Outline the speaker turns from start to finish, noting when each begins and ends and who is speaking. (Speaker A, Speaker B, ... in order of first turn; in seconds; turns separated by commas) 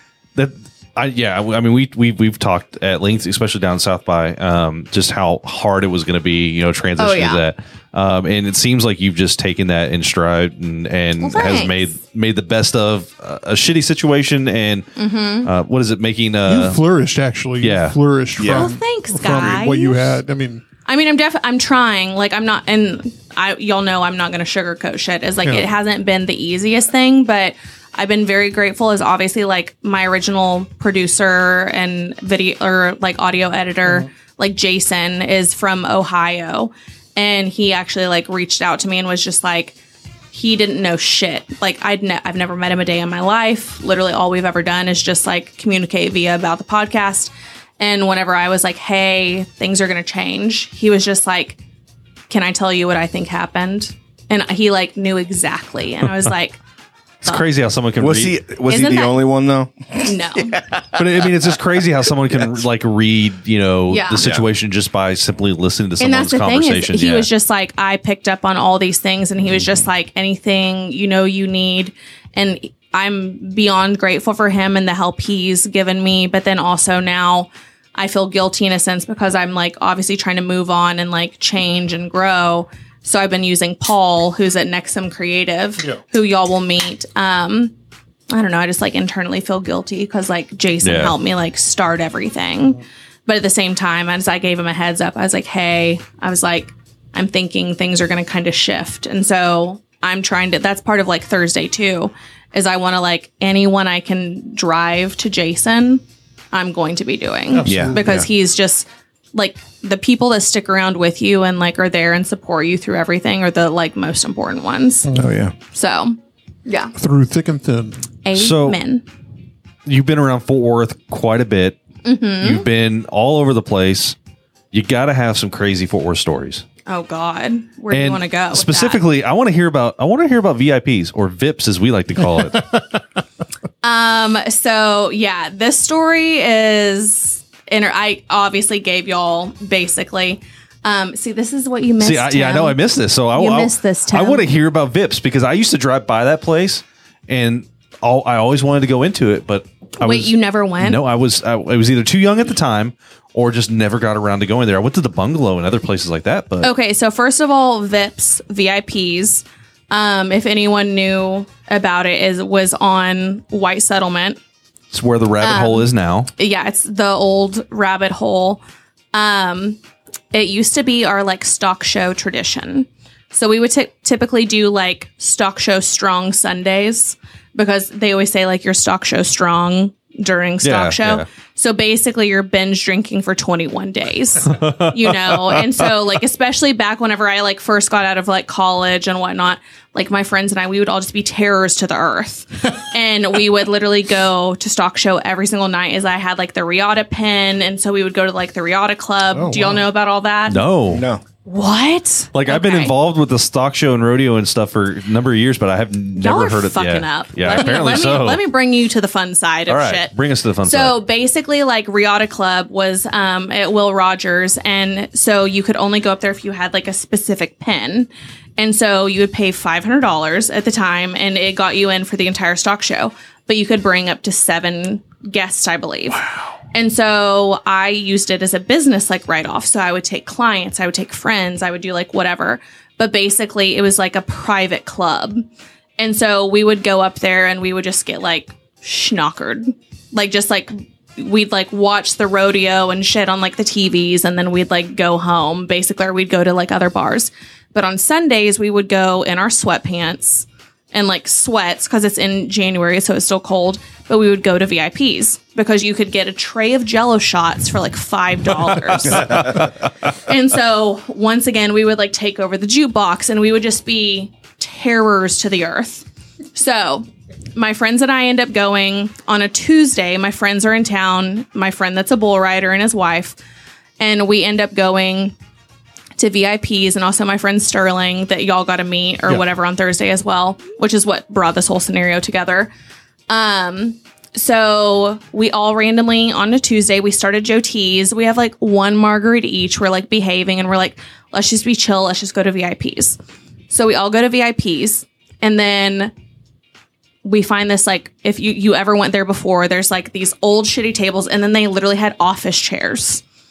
Speaker A: 0.3-14.8, Speaker B: 7.0-7.4, Speaker B: 11.2-11.9, Speaker B: 14.9-15.5, Speaker A: 15.4-16.8, Speaker C: 16.5-20.6, Speaker A: 17.6-18.0, Speaker D: 18.4-18.7, Speaker B: 18.5-20.2, Speaker B: 20.9-39.7, Speaker C: 25.4-25.7, Speaker B: 40.3-51.6, Speaker B: 52.3-56.6, Speaker A: 57.2-58.4, Speaker D: 58.0-61.6, Speaker B: 58.6-59.2, Speaker B: 60.0-60.6, Speaker A: 60.9-67.3, Speaker D: 62.1-62.6, Speaker B: 63.9-64.2, Speaker D: 64.2-64.5, Speaker B: 66.0-87.7, Speaker D: 69.5-69.8, Speaker B: 88.3-106.0, Speaker A: 90.8-91.1, Speaker B: 106.5-115.1, Speaker C: 107.5-108.2, Speaker D: 107.6-108.2, Speaker C: 115.0-115.3, Speaker D: 115.1-115.5, Speaker B: 115.7-116.9, Speaker C: 117.0-118.1, Speaker B: 118.2-119.0, Speaker A: 118.3-118.8, Speaker A: 119.8-121.8, Speaker B: 122.0-122.7, Speaker A: 122.4-124.1, Speaker A: 124.7-126.6, Speaker B: 126.9-129.0, Speaker A: 127.9-132.7, Speaker C: 132.3-132.8, Speaker B: 133.8-142.8, Speaker A: 142.0-156.7, Speaker B: 143.3-144.5, Speaker B: 150.0-151.0, Speaker B: 156.6-164.4, Speaker A: 164.9-166.3, Speaker B: 165.4-168.6, Speaker B: 169.1-169.8, Speaker B: 170.3-200.6, Speaker A: 180.6-181.2, Speaker A: 184.5-185.9, Speaker C: 199.3-199.8, Speaker A: 200.5-201.0, Speaker D: 200.9-201.2, Speaker B: 201.4-202.9, Speaker A: 202.3-208.4, Speaker B: 206.2-210.1, Speaker A: 209.7-211.0, Speaker B: 210.6-226.2, Speaker B: 226.7-235.4, Speaker B: 236.0-259.7, Speaker A: 259.1-259.6, Speaker B: 260.2-273.4, Speaker B: 274.0-275.3, Speaker B: 276.2-282.7, Speaker B: 283.3-293.2, Speaker B: 293.7-296.1, Speaker B: 297.2-303.2